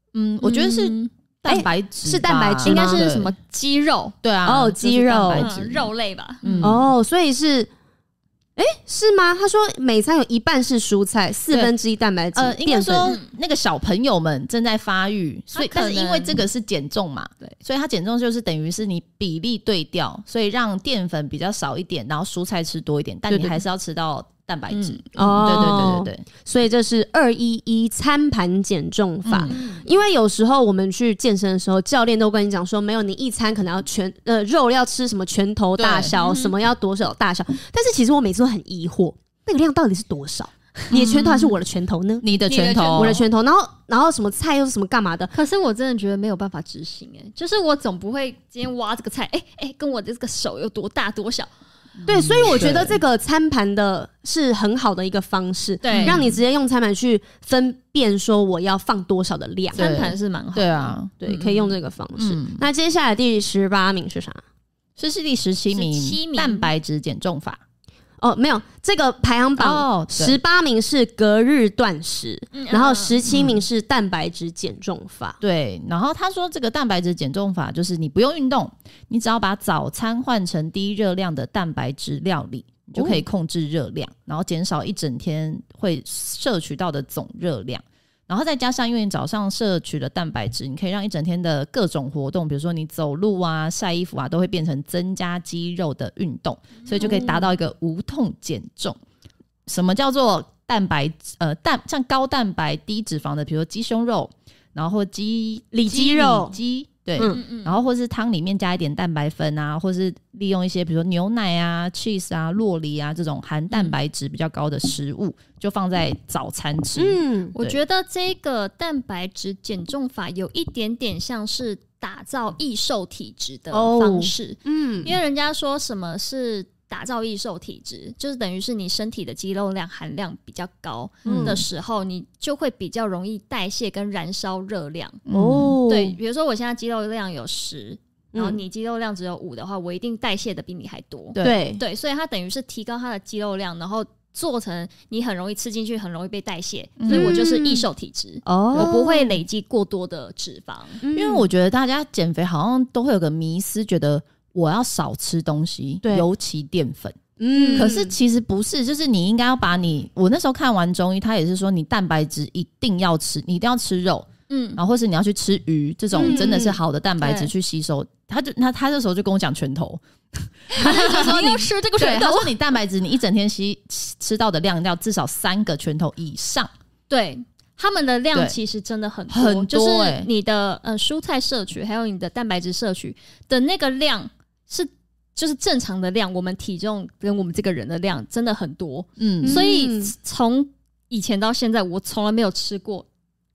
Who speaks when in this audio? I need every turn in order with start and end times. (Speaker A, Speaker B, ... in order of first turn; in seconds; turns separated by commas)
Speaker A: 0.1-3.3, Speaker B: 0.4-1.1, Speaker C: 1.5-3.1, Speaker B: 2.6-4.2, Speaker A: 4.2-5.9, Speaker C: 4.5-5.5, Speaker B: 5.3-6.7, Speaker A: 6.4-6.9, Speaker C: 6.6-7.7, Speaker C: 8.6-13.2, Speaker A: 12.3-26.3, Speaker B: 13.1-13.3, Speaker B: 15.5-16.4, Speaker C: 23.3-23.6, Speaker B: 24.7-25.0, Speaker C: 25.2-42.3, Speaker A: 29.2-29.6, Speaker B: 29.5-29.9, Speaker A: 35.8-36.2, Speaker B: 36.1-36.5, Speaker B: 40.9-41.5, Speaker A: 40.9-41.3, Speaker A: 42.2-43.2, Speaker B: 42.5-43.2, Speaker C: 42.9-45.3, Speaker B: 45.3-51.5, Speaker A: 52.0-53.0, Speaker C: 52.1-59.9, Speaker B: 55.8-56.2, Speaker A: 55.9-56.4, Speaker A: 59.7-61.1, Speaker B: 59.7-61.7, Speaker C: 61.2-64.4, Speaker A: 62.2-62.6, Speaker A: 65.0-67.6, Speaker B: 65.7-66.7, Speaker C: 68.2-75.4, Speaker A: 69.6-70.4, Speaker B: 72.5-73.2, Speaker A: 73.3-73.6, Speaker A: 75.4-99.0, Speaker C: 83.0-83.2, Speaker C: 97.0-97.4, Speaker A: 99.7-117.8, Speaker C: 105.7-106.5, Speaker C: 107.2-107.4, Speaker B: 107.2-107.8, Speaker C: 117.0-117.5, Speaker B: 117.5-135.2, Speaker C: 123.7-125.1, Speaker C: 131.2-131.6, Speaker A: 131.2-131.6, Speaker A: 135.3-135.8, Speaker C: 135.3-136.2, Speaker B: 135.9-151.0, Speaker C: 138.3-138.6, Speaker A: 141.3-141.6, Speaker C: 141.4-141.8, Speaker A: 147.0-147.4, Speaker C: 147.1-147.8, Speaker C: 148.4-149.4, Speaker C: 151.0-151.5, Speaker A: 151.1-157.2, Speaker C: 156.0-156.3, Speaker C: 157.4-158.1, Speaker B: 157.5-157.9, Speaker A: 157.8-176.7, Speaker B: 164.5-164.8, Speaker C: 166.2-166.8, Speaker B: 166.2-166.5, Speaker B: 167.2-167.5, Speaker B: 170.7-172.5, Speaker B: 177.1-193.1, Speaker A: 179.3-180.3, Speaker A: 189.2-189.6, Speaker C: 189.4-190.1